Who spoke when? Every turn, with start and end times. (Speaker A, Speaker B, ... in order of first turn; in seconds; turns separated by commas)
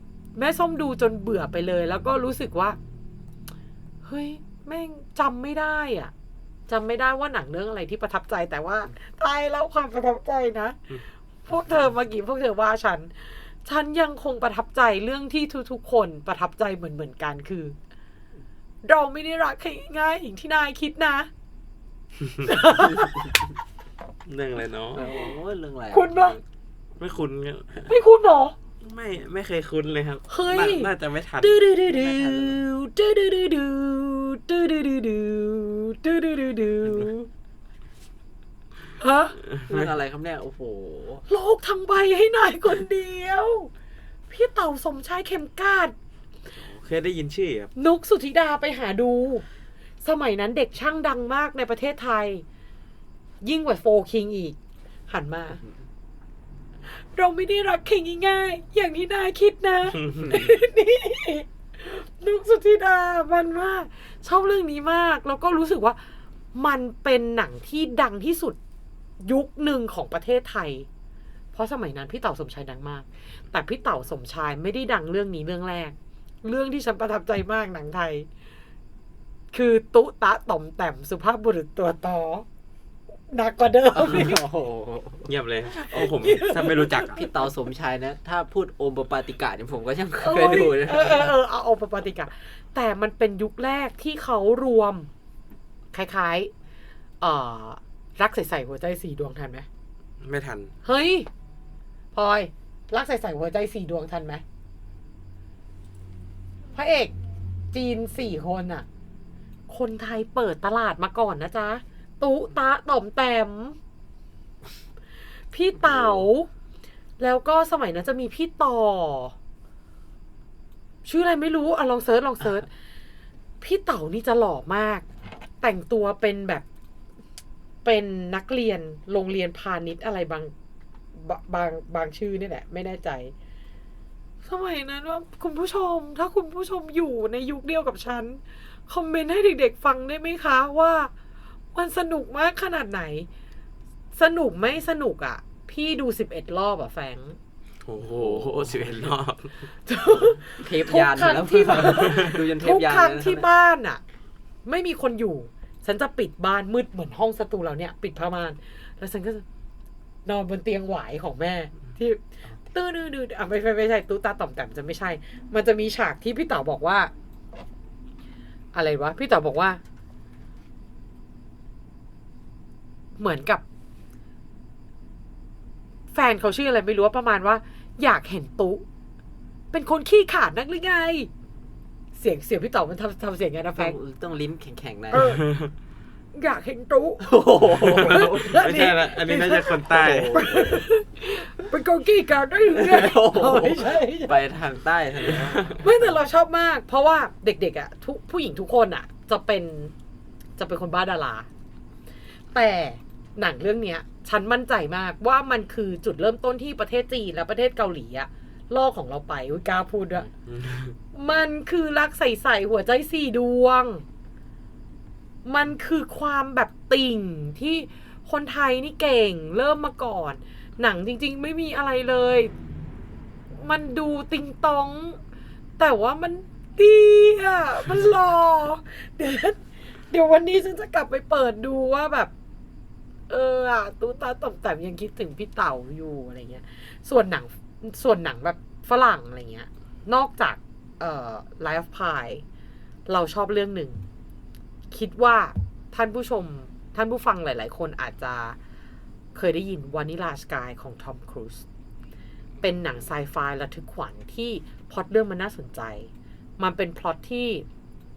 Speaker A: 0.4-2.8, Speaker A: 4.0-6.1, Speaker A: 6.7-17.8, Speaker A: 18.8-21.3, Speaker A: 22.4-23.4, Speaker B: 24.3-25.0, Speaker C: 24.9-26.4, Speaker A: 25.9-26.4, Speaker B: 27.0-27.9, Speaker A: 27.9-28.6, Speaker B: 28.8-31.6, Speaker A: 30.3-30.9, Speaker A: 31.4-37.3, Speaker C: 31.9-32.7, Speaker A: 39.0-39.4, Speaker B: 39.5-39.9, Speaker C: 39.7-41.2, Speaker A: 41.3-43.7, Speaker A: 44.3-46.0, Speaker B: 46.5-47.7, Speaker A: 47.8-49.5, Speaker A: 50.0-52.5, Speaker A: 53.4-54.6, Speaker A: 55.1-55.6, Speaker A: 56.9-66.0, Speaker B: 60.0-60.3, Speaker C: 60.3-60.5, Speaker A: 66.5-68.6, Speaker A: 69.2-70.9, Speaker A: 71.5-78.3, Speaker A: 79.5-82.5, Speaker A: 83.3-84.4, Speaker C: 83.9-85.3, Speaker B: 85.3-87.2, Speaker A: 85.9-87.1, Speaker C: 87.1-91.4, Speaker A: 90.2-95.1, Speaker A: 95.9-96.5, Speaker A: 97.2-99.7, Speaker B: 100.2-100.7, Speaker A: 100.8-101.3, Speaker A: 102.1-104.4, Speaker A: 106.8-107.1, Speaker A: 107.7-108.9, Speaker A: 109.7-113.8, Speaker A: 115.5-116.5, Speaker A: 117.2-119.3, Speaker A: 121.0-122.7, Speaker A: 123.6-125.1, Speaker A: 125.6-126.7, Speaker A: 127.8-130.5, Speaker A: 131.1-133.3, Speaker A: 134.4-141.1, Speaker A: 141.7-143.3, Speaker A: 144.1-147.4, Speaker B: 147.8-149.7, Speaker C: 148.0-149.2, Speaker A: 149.8-154.0, Speaker C: 150.1-153.5, Speaker A: 154.7-159.4, Speaker A: 160.2-167.1, Speaker A: 168.7-169.8, Speaker A: 173.2-173.6, Speaker A: 176.1-178.9, Speaker A: 179.7-181.3, Speaker A: 182.2-184.0, Speaker C: 183.8-185.3, Speaker A: 185.1-185.5, Speaker B: 185.1-185.7, Speaker A: 186.3-187.4, Speaker C: 187.2-188.7, Speaker B: 187.7-190.4, Speaker A: 188.1-194.4, Speaker C: 189.9-190.9, Speaker C: 192.7-196.1, Speaker A: 195.8-199.9, Speaker A: 200.6-201.5, Speaker A: 202.5-210.3, Speaker B: 210.5-211.0, Speaker A: 211.1-214.0, Speaker A: 215.4-222.5, Speaker A: 223.5-225.2, Speaker A: 225.8-232.3, Speaker A: 233.3-242.4, Speaker A: 243.1-244.1, Speaker A: 244.9-248.6, Speaker A: 249.3-251.7, Speaker A: 252.6-257.7